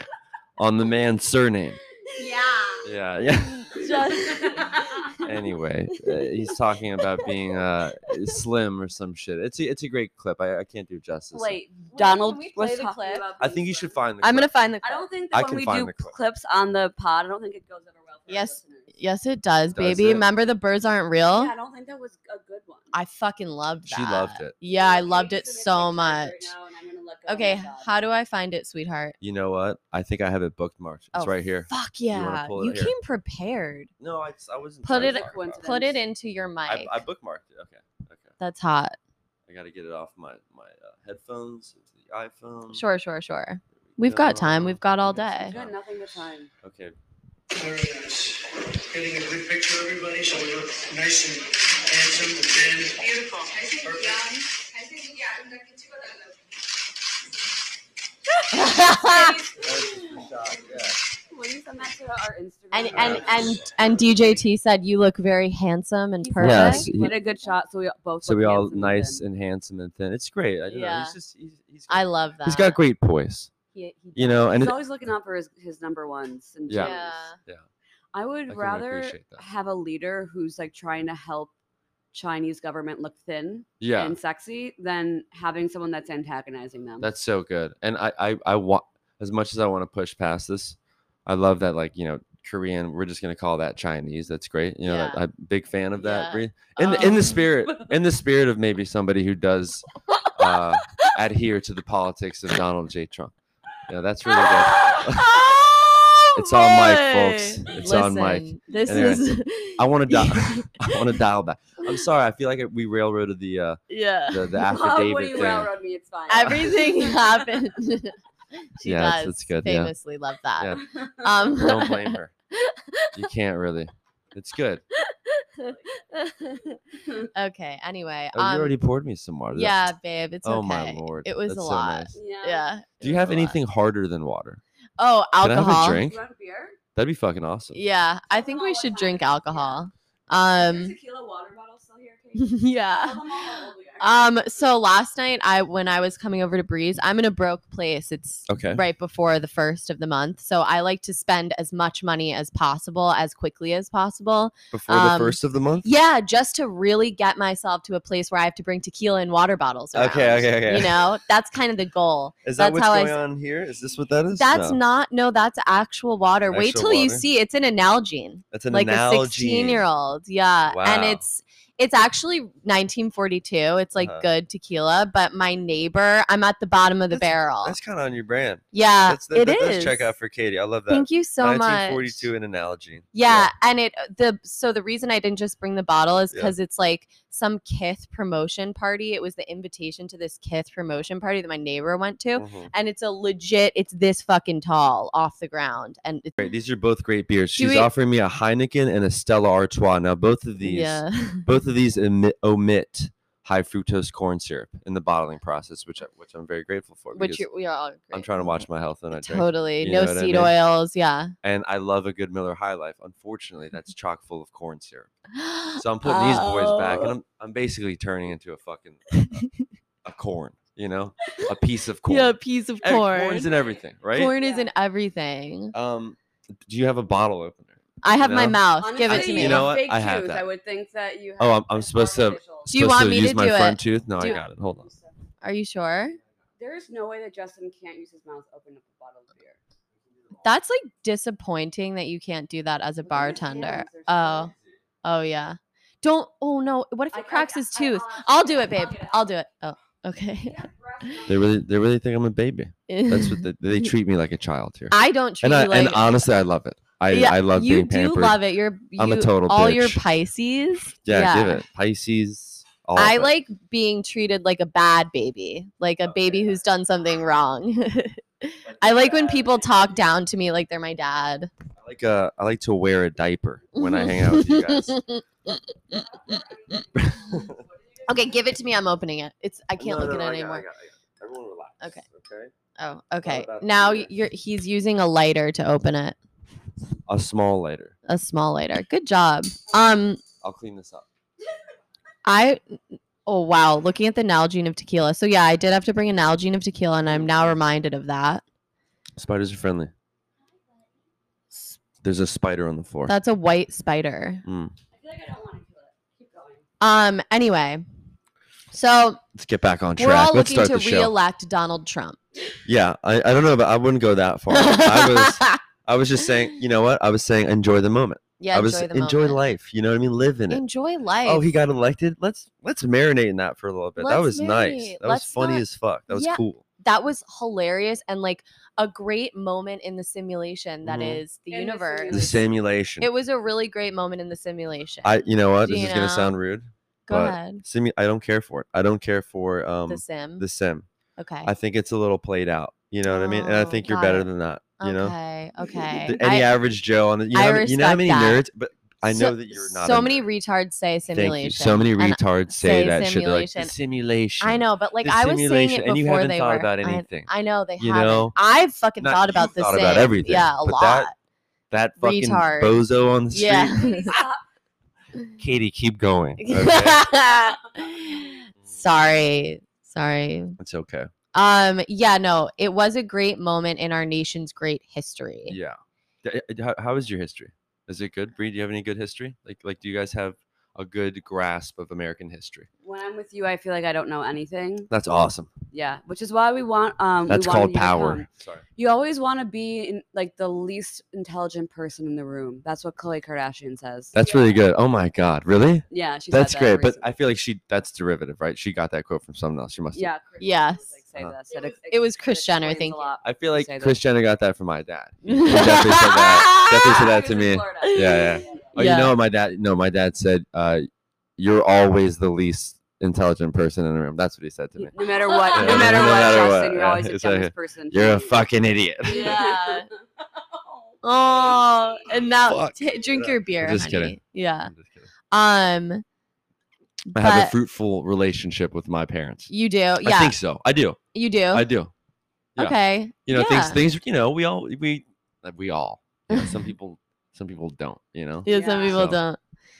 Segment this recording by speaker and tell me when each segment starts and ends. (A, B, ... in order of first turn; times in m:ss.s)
0:00.6-0:01.8 A
0:02.1-0:02.8 B
0:02.2-0:02.8 C
0:02.8-0:04.6 A
0:03.4-0:05.3 B
0:04.2-0:05.1 C
0:05.2-0:11.6 A
0:06.0-0:06.3 B
0:11.3-0:14.0 C
0:11.9-0:13.3 B
0:13.4-0:14.5 A
0:14.2-0:15.1 B
0:14.8-0:18.9 C
0:15.3-0:16.1 A
0:18.3-0:21.5 B
0:19.7-0:20.2 A
0:21.2-0:22.9 C
0:22.9-0:26.5 B
0:23.9-0:24.5 A
0:24.7-0:27.9 C
0:27.3-0:29.2 B
0:29.2-0:32.9 A
0:31.1-0:33.9 B
0:34.0-0:35.7 A
0:34.8-0:37.0 B
0:34.9-0:36.0 C
0:36.7-0:38.3 A
0:38.4-0:39.0 B
0:39.5-0:42.8 A
0:42.7-0:45.5 B
0:44.0-0:46.9 A
0:45.4-0:46.5 C
0:47.5-0:54.4 D
0:58.5-0:59.5 B
0:58.9-0:59.8 C
0:59.6-1:01.0 A
1:01.3-1:04.2 C
1:02.7-1:07.3 B
1:02.9-1:03.7 A
1:06.2-1:09.2 C
1:06.4-1:07.1 A
1:08.2-1:13.5 A
1:10.7-1:11.2 B
1:11.9-1:12.8 B
1:13.7-1:14.6 B
1:14.1-1:14.8 A
1:14.5-1:17.2 C
1:16.7-1:17.6 A
1:16.7-1:17.4 B
1:18.1-1:21.5 C
1:18.5-1:19.4 A
1:22.1-1:27.1 C
1:23.8-1:24.2 A
1:27.0-1:43.3 A
1:34.8-1:35.2 B
1:36.0-1:37.4 B
1:36.8-1:37.8 C
1:40.1-1:41.1 B
1:43.8-1:45.5 A
1:44.2-1:51.2 B
1:46.3-1:55.7 A
1:53.9-1:54.6 B
1:54.7-1:57.4 C
1:56.3-2:03.3 B
1:58.8-1:59.9 A
2:00.8-2:01.4 C
2:01.5-2:02.3 A
2:03.1-2:04.8 A
2:04.9-2:06.8 B
2:07.3-2:08.7 B
2:08.3-2:09.9 A
2:09.5-2:13.6 B
2:10.4-2:12.2 A
2:12.1-2:12.7 C
2:13.0-2:14.6 A
2:15.0-2:16.0 B
2:15.4-2:16.2 A
2:16.0-2:16.8 C
2:16.9-2:17.8 A
2:17.7-2:21.0 B
2:18.3-2:19.8 C
2:20.5-2:24.4 C
2:22.4-2:23.2 B
2:24.0-2:43.2 B
2:28.5-2:28.8 A
2:34.7-2:35.9 A
2:39.9-2:41.0 A
2:42.4-2:44.8 A
2:44.3-2:57.8 B
2:46.5-2:47.2 A
2:48.5-2:49.8 A
2:50.7-2:51.2 A
2:54.0-2:54.2 A
2:57.1-3:03.5 A
2:58.7-3:00.1 B
3:00.9-3:02.3 B
3:03.1-3:16.5 B
3:12.4-3:12.7 A
3:16.4-3:27.4 A
3:17.6-3:17.9 B
3:20.6-3:21.5 B
3:27.1-3:31.3 B
3:28.1-3:30.5 A
3:31.4-3:35.1 A
3:35.3-3:37.1 B
3:35.8-3:39.2 A
3:39.1-3:39.5 B
3:40.0-3:44.3 A
3:42.0-3:43.5 B
3:43.4-3:44.7 C
3:44.1-3:45.7 B
3:45.7-3:50.4 A
3:48.0-3:49.8 B
3:48.8-3:52.7 C
3:51.4-3:54.9 A
3:52.7-3:54.4 B
3:54.2-3:55.0 C
3:55.4-3:56.2 B
3:56.6-3:59.6 C
4:00.4-4:04.5 B
4:03.0-4:04.5 C
4:05.0-4:11.2 B
4:07.1-4:09.3 C
4:10.4-4:11.5 C
4:11.2-4:18.4 A
4:12.9-4:13.9 B
4:14.9-4:16.2 B
4:17.1-4:21.6 B
4:19.0-4:20.0 A
4:21.0-4:23.3 A
4:22.9-4:31.5 B
4:31.8-4:35.0 A
4:33.7-4:36.0 B
4:36.2-4:38.1 C
4:36.9-4:37.6 A
4:38.0-4:40.6 B
4:39.8-4:42.5 A
4:42.8-4:46.2 B
4:43.2-4:44.1 A
4:47.1-4:47.9 A
4:48.0-4:50.2 B
4:50.4-4:51.0 A
4:52.2-4:58.4 B
4:59.2-4:59.9 A
5:02.0-5:03.1 A
5:03.1-5:04.4 B
5:04.4-5:04.7 A
5:04.9-5:06.6 C
5:06.8-5:07.8 B
5:08.7-5:09.2 B
5:09.3-5:11.1 A
5:10.0-5:12.2 B
5:12.6-5:20.6 A
5:14.5-5:15.6 B
5:18.4-5:19.4 B
5:20.5-5:21.5 B
5:21.2-5:26.6 A
5:24.0-5:32.4 B
5:30.8-5:31.2 A
5:31.5-5:32.4 C
5:32.1-5:33.1 A
5:33.0-5:36.3 B
5:35.0-5:40.9 A
5:37.1-5:37.6 B
5:39.9-5:40.4 B
5:41.2-5:41.5 B
5:41.4-5:45.1 A
5:43.0-5:44.3 B
5:44.8-5:46.5 B
5:46.0-5:50.2 A
5:47.3-5:48.4 B
5:49.1-5:53.7 B
5:51.1-5:58.4 A
5:54.4-6:01.1 B
5:59.0-6:01.1 A
6:01.7-6:03.8 A
6:02.0-6:04.2 B
6:03.7-6:04.4 C
6:05.4-6:07.0 A
6:06.4-6:10.6 B
6:10.6-6:11.1 A
6:11.3-6:15.6 B
6:15.5-6:22.7 A
6:22.8-6:24.9 C
6:24.9-6:25.5 A
6:25.7-6:34.6 C
6:27.3-6:28.6 A
6:34.1-6:40.1 A
6:35.9-6:37.1 C
6:39.9-6:44.0 C
6:40.4-6:40.9 B
6:41.5-6:43.1 B
6:43.2-6:55.0 A
6:45.2-6:47.1 B
6:46.6-6:48.7 C
6:47.8-6:49.1 B
6:54.9-6:58.4 C
6:55.3-6:55.9 B
6:55.5-6:59.4 A
6:59.0-7:01.8 C
6:59.1-6:59.9 B
7:01.0-7:04.7 B
7:02.4-7:05.1 A
7:05.3-7:06.0 B
7:07.1-7:07.5 B
7:07.1-7:09.5 A
7:09.5-7:10.4 B
7:10.0-7:11.0 A
7:11.1-7:11.7 B
7:11.5-7:11.9 A
7:12.6-7:19.2 A
7:12.6-7:13.8 B
7:16.3-7:16.6 B
7:18.4-7:19.4 B
7:18.5-7:19.0 C